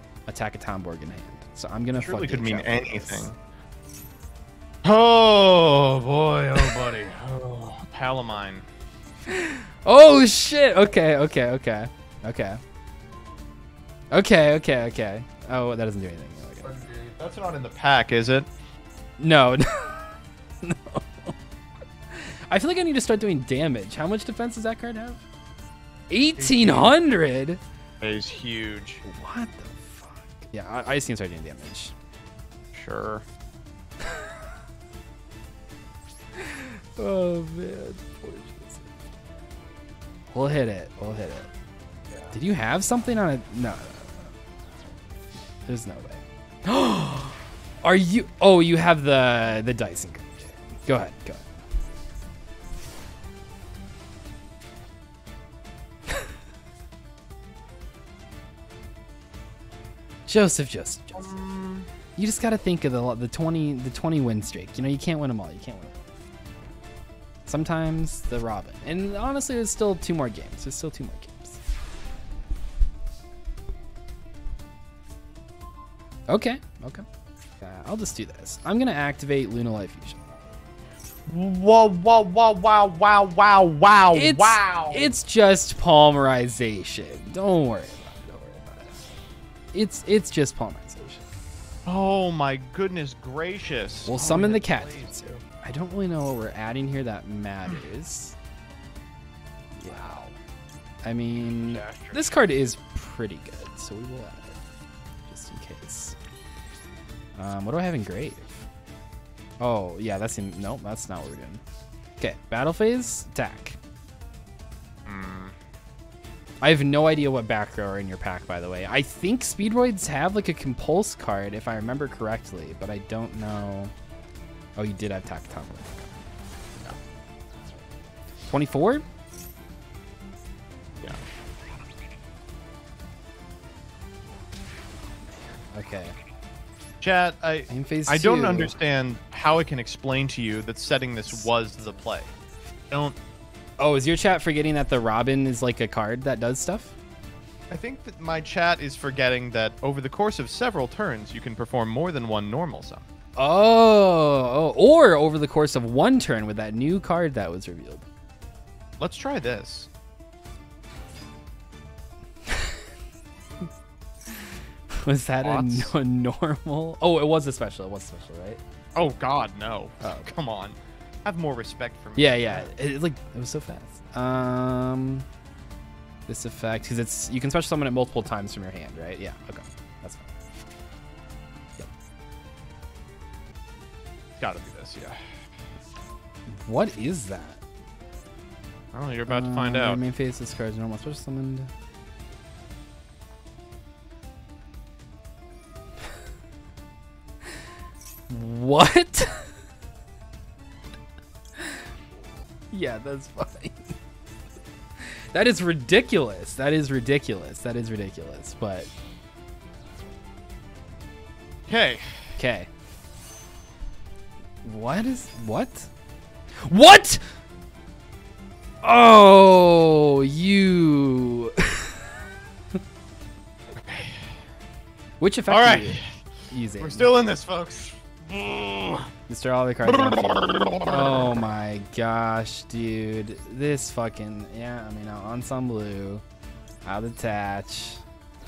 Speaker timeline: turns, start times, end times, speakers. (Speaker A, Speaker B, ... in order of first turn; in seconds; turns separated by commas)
Speaker A: 0.3-3.3, Speaker B: 1.9-3.4, Speaker B: 4.8-8.7, Speaker A: 9.3-12.6, Speaker A: 14.1-16.8, Speaker B: 16.6-18.5, Speaker A: 19.2-21.3, Speaker A: 22.1-25.2, Speaker A: 26.1-27.6, Speaker B: 26.4-26.9, Speaker B: 28.0-29.0, Speaker A: 29.0-31.9, Speaker B: 32.7-33.2, Speaker A: 34.0-34.3, Speaker A: 36.4-38.9, Speaker A: 40.3-41.5, Speaker B: 42.1-42.3, Speaker A: 42.3-44.3, Speaker A: 45.6-51.5, Speaker A: 60.3-61.3, Speaker B: 61.1-61.9, Speaker A: 62.1-65.9, Speaker A: 67.5-71.6, Speaker A: 76.3-77.0, Speaker A: 77.6-80.2, Speaker B: 81.3-85.2, Speaker A: 84.1-88.9, Speaker A: 89.7-91.2, Speaker B: 91.8-95.4, Speaker A: 94.0-98.3, Speaker A: 99.8-100.3, Speaker A: 101.0-104.6, Speaker B: 101.4-102.3, Speaker A: 105.3-106.2, Speaker A: 107.3-108.7, Speaker A: 109.6-111.6, Speaker A: 112.2-113.8, Speaker B: 115.0-115.5, Speaker A: 116.6-123.9, Speaker A: 124.8-126.2, Speaker A: 128.5-129.0, Speaker A: 135.7-136.1, Speaker B: 137.0-142.3, Speaker A: 137.7-138.7, Speaker B: 142.9-143.2, Speaker A: 143.8-146.9, Speaker B: 147.7-153.1, Speaker A: 153.4-158.0, Speaker B: 159.0-159.9, Speaker A: 162.5-162.8, Speaker A: 164.3-168.6, Speaker B: 165.4-165.9, Speaker B: 168.9-172.7, Speaker A: 170.0-170.3, Speaker A: 172.2-175.2, Speaker A: 176.3-180.2, Speaker B: 184.4-185.3, Speaker A: 186.5-187.6, Speaker B: 188.9-190.0, Speaker A: 189.3-191.7, Speaker A: 198.3-199.4, Speaker A: 202.7-203.9, Speaker A: 205.3-208.9, Speaker B: 211.7-212.2, Speaker A: 212.4-212.7, Speaker A: 214.6-215.9, Speaker A: 216.6-217.2, Speaker A: 218.8-221.9, Speaker B: 223.8-224.3, Speaker A: 225.2-227.1, Speaker B: 225.5-226.1, Speaker B: 226.8-229.1, Speaker A: 229.3-236.2, Speaker B: 229.8-231.4, Speaker A: 236.8-238.0